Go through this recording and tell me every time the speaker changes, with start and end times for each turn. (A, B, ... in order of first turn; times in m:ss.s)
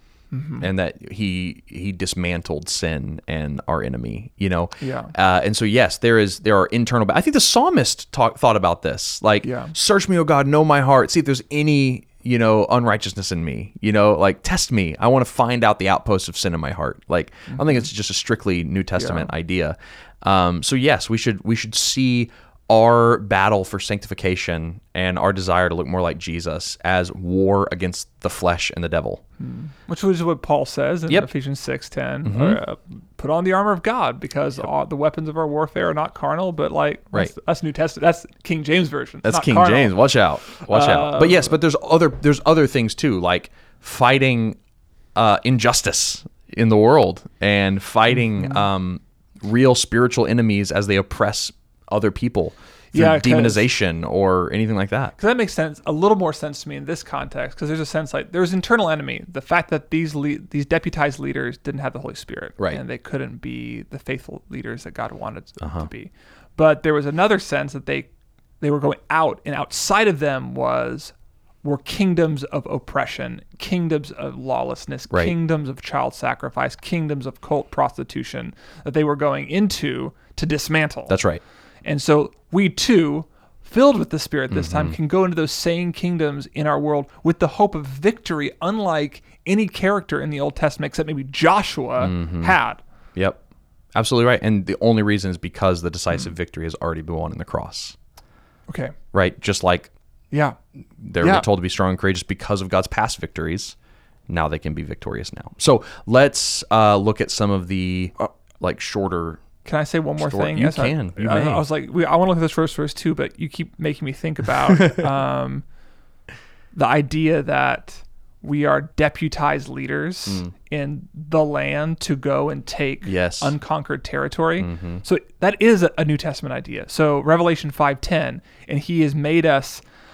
0:00.3-0:00.7 A
0:00.6-0:29.2 B
0:04.8-0:05.1 A
0:09.4-0:09.7 A
0:19.0-0:19.3 A
0:29.4-0:40.0 A
0:32.2-0:32.6 B
0:39.2-0:44.6 B
0:40.5-0:41.6 A
0:45.2-0:55.2 B
0:48.4-0:48.6 A
0:52.9-0:53.6 A
0:55.2-1:08.1 A
1:05.6-1:05.9 B
1:08.6-1:11.1 A
1:11.6-1:21.2 A
1:21.1-1:21.4 B
1:21.8-1:32.8 A
1:24.5-1:25.0 B
1:32.0-1:32.6 B
1:33.2-1:33.4 B
1:34.0-1:38.0 B
1:38.7-1:39.0 A
1:39.1-1:39.9 B
1:40.3-1:40.6 A
1:41.0-1:43.8 B
1:41.2-1:41.5 A
1:44.3-1:49.4 B
1:49.6-1:55.6 A
1:50.2-1:51.6 B
1:56.8-2:09.8 A
2:03.0-2:03.5 B
2:04.6-2:05.0 B